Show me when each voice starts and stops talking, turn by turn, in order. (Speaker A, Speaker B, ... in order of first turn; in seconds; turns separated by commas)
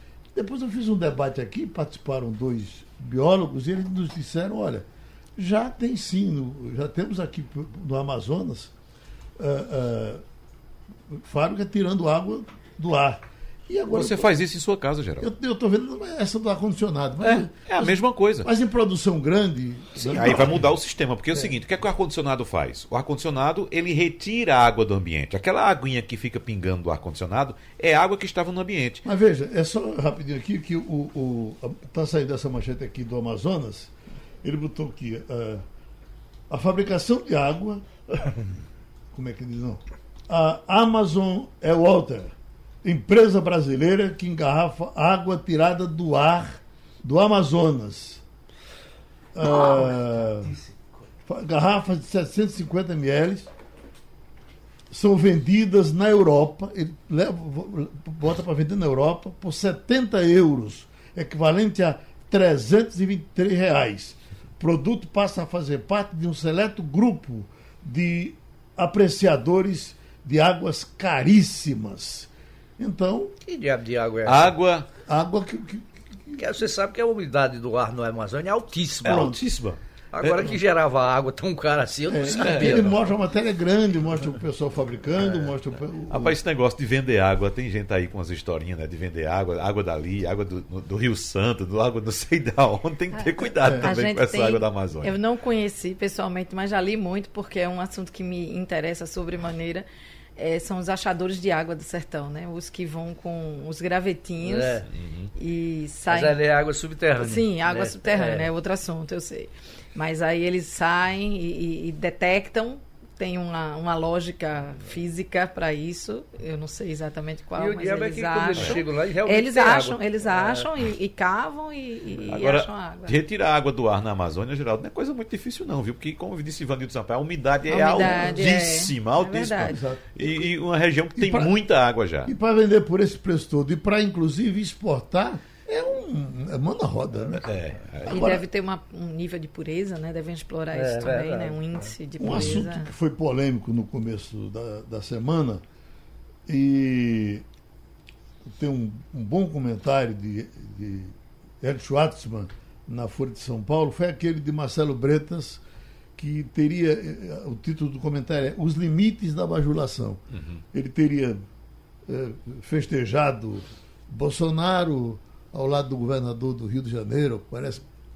Speaker A: 0.3-8.7, Speaker A: 9.4-10.2, Speaker A: 11.1-14.3, Speaker B: 13.9-15.3, Speaker A: 15.2-20.6, Speaker B: 17.2-18.5, Speaker B: 20.0-29.0, Speaker A: 29.0-35.6, Speaker A: 36.5-38.5, Speaker A: 39.1-48.2, Speaker A: 49.3-50.5, Speaker A: 51.3-53.5, Speaker A: 54.9-73.3, Speaker C: 73.4-74.5, Speaker B: 74.2-74.9, Speaker A: 75.0-76.4, Speaker C: 76.3-79.3, Speaker B: 79.0-80.5, Speaker A: 79.0-79.4, Speaker C: 80.1-83.0, Speaker A: 82.1-86.4, Speaker B: 82.4-82.8, Speaker B: 86.1-95.2, Speaker D: 93.1-99.8, Speaker D: 100.4-106.4, Speaker C: 104.4-104.9, Speaker B: 104.9-105.3, Speaker C: 106.1-108.5, Speaker D: 107.2-123.2, Speaker C: 117.6-120.7, Speaker B: 122.3-132.3, Speaker A: 127.7-128.5, Speaker D: 127.7-129.8, Speaker A: 129.7-130.3, Speaker A: 131.2-131.5, Speaker A: 132.2-137.5, Speaker B: 137.4-138.2, Speaker A: 138.0-138.4, Speaker D: 138.1-142.9, Speaker C: 140.7-142.5, Speaker A: 142.2-145.6, Speaker A: 146.5-147.4, Speaker A: 148.4-155.6, Speaker A: 156.2-160.2, Speaker B: 160.3-160.6, Speaker A: 160.7-161.4, Speaker A: 162.1-167.8